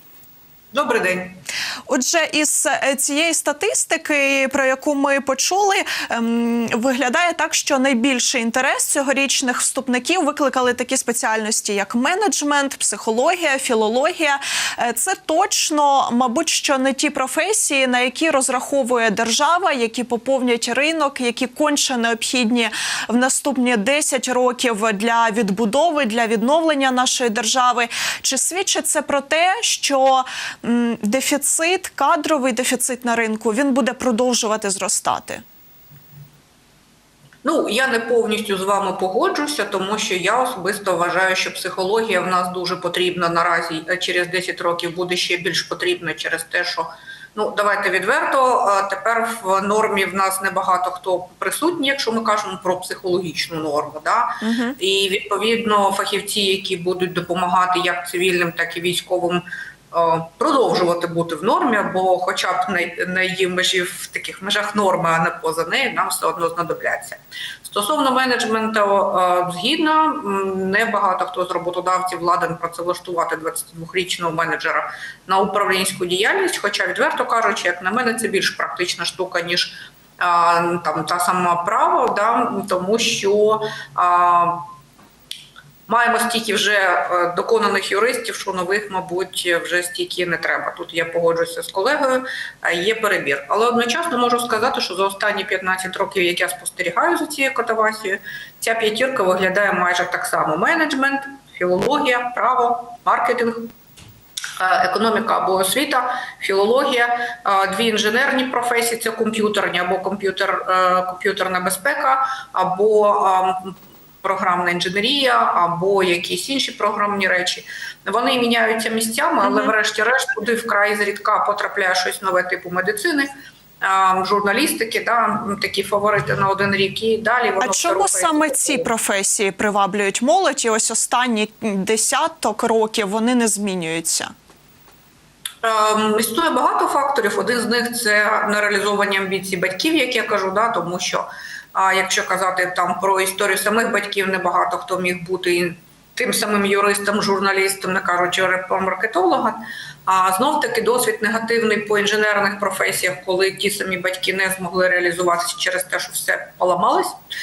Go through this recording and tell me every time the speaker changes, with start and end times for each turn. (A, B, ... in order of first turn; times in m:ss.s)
0:00.7-0:01.4 A
0:01.9-0:35.4 B
0:37.4-1:24.6 A
0:54.4-0:54.8 B
1:25.9-1:43.7 A
1:44.6-2:08.9 A
1:59.4-1:59.7 B
2:07.6-2:14.3 B
2:15.6-2:37.2 A